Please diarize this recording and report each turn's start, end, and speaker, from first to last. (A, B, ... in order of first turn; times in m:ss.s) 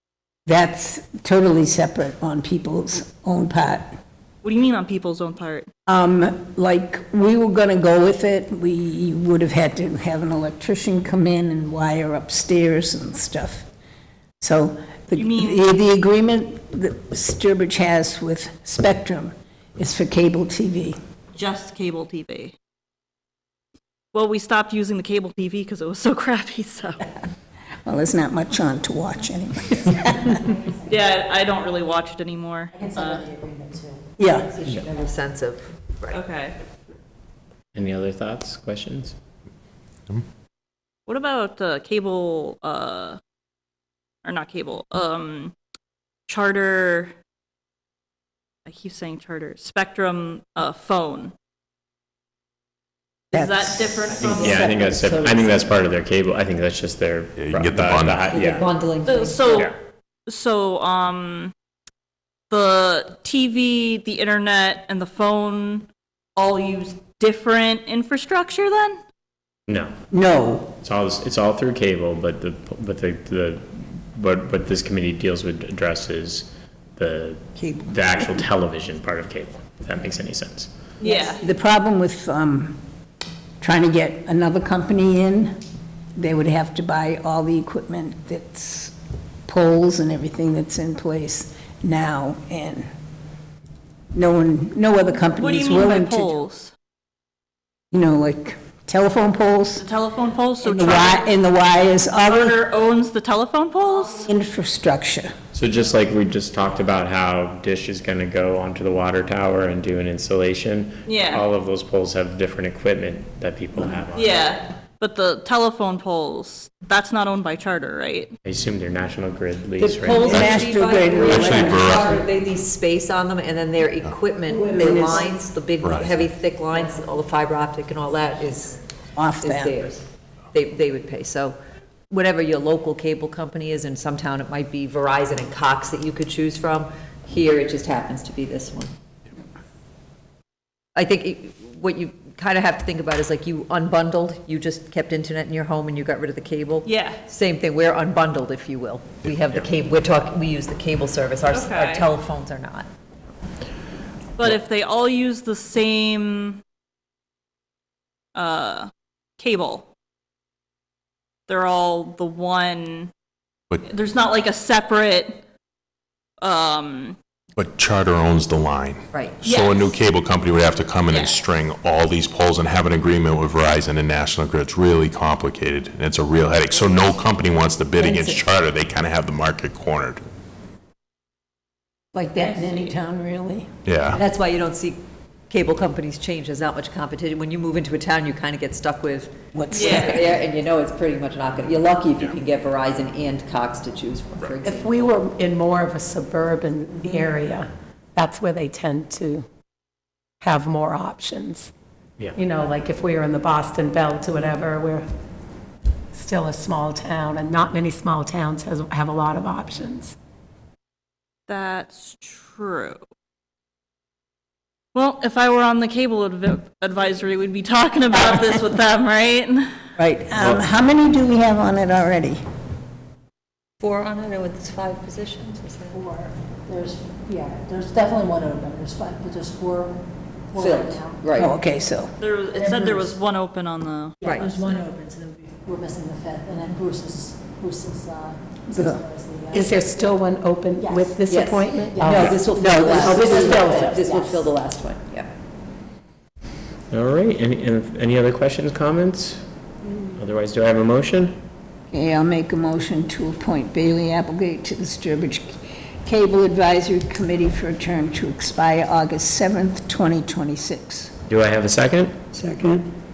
0:00.4-0:03.9 A
0:04.4-0:05.7 B
0:05.9-0:13.7 A
0:14.4-0:21.0 A
0:15.1-0:15.6 B
0:21.3-0:22.6 B
0:24.1-0:27.0 B
0:27.8-0:30.4 A
0:30.5-0:30.9 C
0:30.9-0:33.2 B
0:32.7-0:34.3 C
0:34.2-0:34.5 A
0:34.4-0:36.2 D
0:36.1-0:36.6 B
0:37.7-0:39.2 E
0:41.1-0:43.2 B
0:44.2-0:45.5 B
0:46.3-0:47.1 B
0:48.6-0:51.3 B
0:53.3-0:54.8 B
0:53.3-0:54.1 A
0:54.1-0:58.7 E
0:54.3-0:55.7 D
0:57.4-0:58.4 F
0:58.3-0:59.7 D
0:59.0-0:59.7 B
1:00.3-1:01.5 B
1:02.5-1:09.0 B
1:09.7-1:10.0 E
1:10.1-1:10.8 A
1:10.8-1:20.7 E
1:17.6-1:17.9 A
1:21.0-1:21.4 D
1:21.0-1:21.4 B
1:21.4-1:22.8 A
1:23.6-1:25.6 A
1:26.2-1:28.9 A
1:29.4-1:32.8 A
1:34.1-1:36.4 A
1:35.4-1:36.7 B
1:37.9-1:39.8 A
1:39.8-1:41.4 B
1:40.6-1:42.6 A
1:42.1-1:44.3 B
1:44.2-1:45.3 A
1:45.5-1:54.4 E
1:51.0-1:51.4 B
1:54.1-1:58.3 B
1:58.4-2:00.6 E
1:59.8-2:08.8 D
2:00.1-2:02.2 A
2:01.2-2:02.1 F
2:04.5-2:05.3 A
2:05.8-2:06.3 F
2:09.1-2:09.7 A
2:09.4-2:11.6 D
2:12.1-2:18.9 D
2:20.9-2:32.8 D
2:26.8-2:27.2 B
2:31.5-2:32.1 B
2:34.4-2:36.6 B
2:38.3-2:39.9 B
2:41.5-2:43.1 B
2:43.8-2:45.4 B
2:46.4-2:47.2 B
2:47.6-3:00.2 F
2:49.1-2:49.4 D
2:49.4-2:50.0 B
2:51.1-2:51.4 B
2:58.0-2:58.4 D
3:02.1-3:03.7 A
3:03.8-3:04.2 F
3:04.1-3:05.0 D
3:05.5-3:15.1 D
3:09.5-3:10.4 A
3:09.7-3:10.2 B
3:14.6-3:19.5 G
3:20.4-3:21.7 G
3:22.4-3:25.0 G
3:26.1-3:30.1 G
3:31.5-3:33.0 B
3:34.9-3:39.7 B
3:40.0-3:42.4 A
3:43.8-3:46.0 D
3:45.9-3:51.2 C
3:50.6-3:51.5 D
3:51.4-3:52.1 A
3:52.2-3:54.2 B
3:54.2-4:00.2 C
3:54.2-3:54.5 D
3:58.7-3:59.0 A
3:59.5-4:04.1 G
4:00.8-4:01.2 C
4:01.2-4:05.3 D
4:01.9-4:04.4 C
4:02.3-4:03.2 A
4:06.9-4:09.4 E
4:10.1-4:11.4 E
4:11.9-4:21.1 A
4:21.3-4:22.2 E